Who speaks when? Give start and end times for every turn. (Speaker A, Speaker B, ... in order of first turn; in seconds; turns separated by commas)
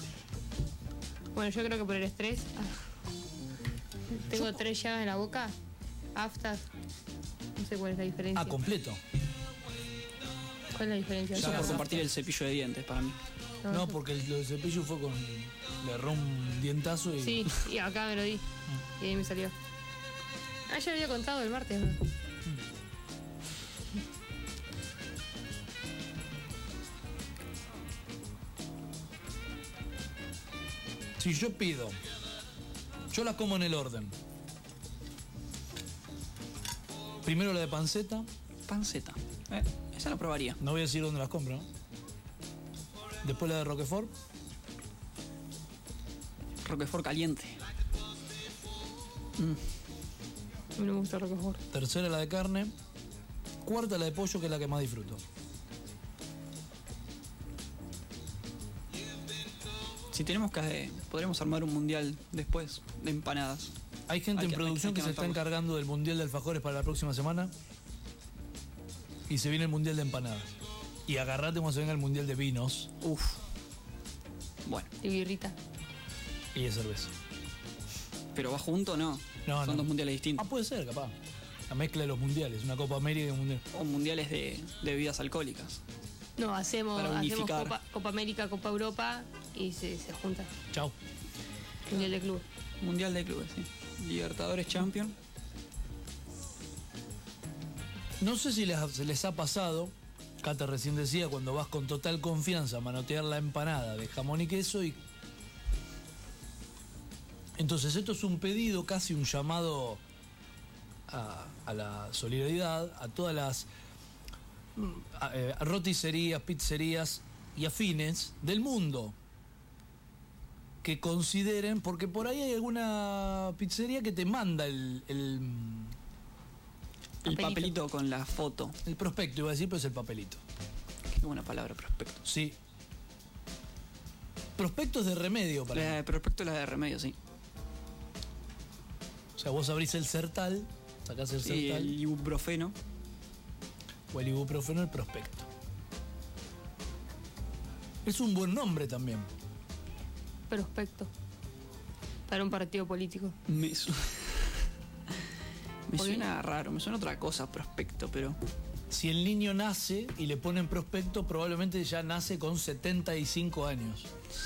Speaker A: 1.4-2.7, Speaker A: 4.1-5.5, Speaker A: 6.2-6.7, Speaker A: 7.6-8.6, Speaker B: 8.3-9.0, Speaker A: 10.7-11.8, Speaker B: 11.3-12.1, Speaker C: 11.3-13.2, Speaker A: 13.6-14.0, Speaker B: 13.7-17.5, Speaker A: 17.2-18.4, Speaker A: 19.0-19.5, Speaker A: 20.7-22.0, Speaker B: 31.2-32.0, Speaker B: 33.1-34.1, Speaker B: 37.2-38.3, Speaker C: 38.7-40.6, Speaker B: 40.6-41.7, Speaker B: 43.2-44.1, Speaker C: 46.6-47.6, Speaker A: 50.8-51.6, Speaker B: 51.7-52.7, Speaker B: 53.6-55.2, Speaker C: 60.1-63.7, Speaker B: 64.1-67.5, Speaker C: 64.3-65.4, Speaker B: 69.3-70.5, Speaker B: 71.1-73.0, Speaker C: 73.0-73.4, Speaker C: 74.7-74.9, Speaker A: 75.0-75.6, Speaker B: 76.5-77.1, Speaker C: 78.3-80.5, Speaker B: 79.5-81.1, Speaker B: 81.7-83.7, Speaker C: 83.7-85.8, Speaker A: 86.4-90.5, Speaker C: 87.0-87.7, Speaker A: 91.9-92.4, Speaker C: 92.8-95.2, Speaker B: 98.2-105.0, Speaker B: 107.6-110.0, Speaker B: 111.1-113.7, Speaker B: 114.8-119.2, Speaker B: 120.8-126.0, Speaker C: 127.2-128.8, Speaker A: 127.2-127.8, Speaker B: 128.8-130.4, Speaker C: 131.1-132.2, Speaker B: 132.2-132.6, Speaker B: 134.6-136.0, Speaker C: 135.7-137.2, Speaker B: 139.4-142.0, Speaker C: 141.4-142.8, Speaker B: 144.1-145.5, Speaker B: 148.1-149.3, Speaker A: 150.5-151.1, Speaker A: 152.3-153.3, Speaker C: 153.5-154.6, Speaker C: 155.9-158.4, Speaker A: 156.0-156.3, Speaker B: 158.9-164.1